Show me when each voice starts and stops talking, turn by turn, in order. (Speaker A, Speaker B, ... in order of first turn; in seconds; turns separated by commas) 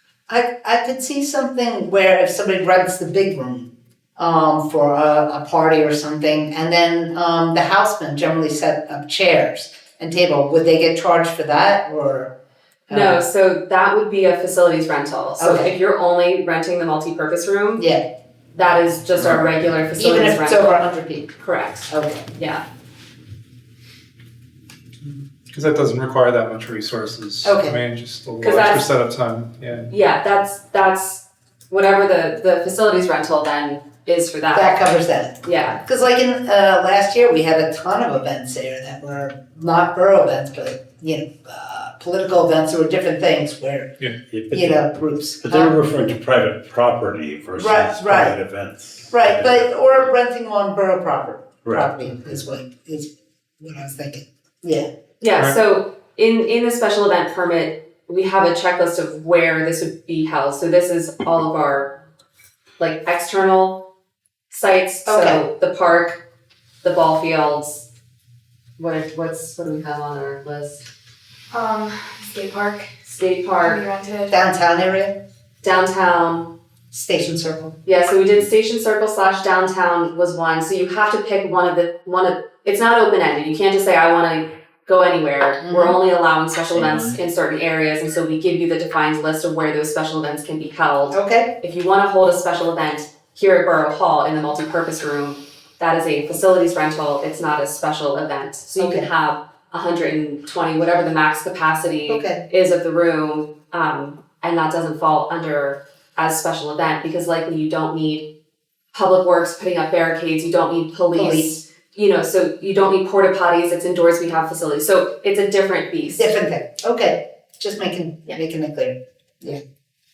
Speaker A: 0.3-12.3, Speaker A: 12.9-13.2, Speaker B: 12.9-17.8, Speaker A: 15.4-15.7, Speaker A: 17.8-18.0, Speaker B: 18.5-20.8, Speaker A: 19.9-21.3, Speaker B: 21.4-22.6, Speaker A: 21.9-22.2, Speaker C: 25.5-29.9, Speaker A: 27.4-27.8, Speaker B: 28.4-28.9, Speaker B: 29.9-34.8, Speaker A: 34.5-43.9, Speaker B: 35.4-35.8, Speaker D: 44.3-44.9, Speaker A: 44.5-45.8, Speaker D: 45.4-50.1, Speaker A: 47.6-48.4, Speaker A: 49.1-54.9, Speaker D: 51.6-52.0, Speaker B: 55.2-62.0, Speaker B: 62.8-63.9, Speaker B: 64.5-66.2, Speaker A: 65.0-65.4, Speaker B: 66.8-67.9, Speaker B: 68.8-70.8, Speaker E: 71.5-72.9, Speaker B: 73.1-73.8, Speaker E: 73.6-74.3, Speaker A: 74.3-75.2, Speaker B: 75.6-76.5, Speaker A: 76.9-77.8, Speaker B: 77.8-108.3, Speaker A: 85.6-86.0, Speaker A: 91.1-91.5, Speaker A: 98.8-99.1, Speaker A: 102.1-102.4, Speaker B: 108.9-116.3, Speaker A: 111.1-111.6, Speaker A: 116.1-119.6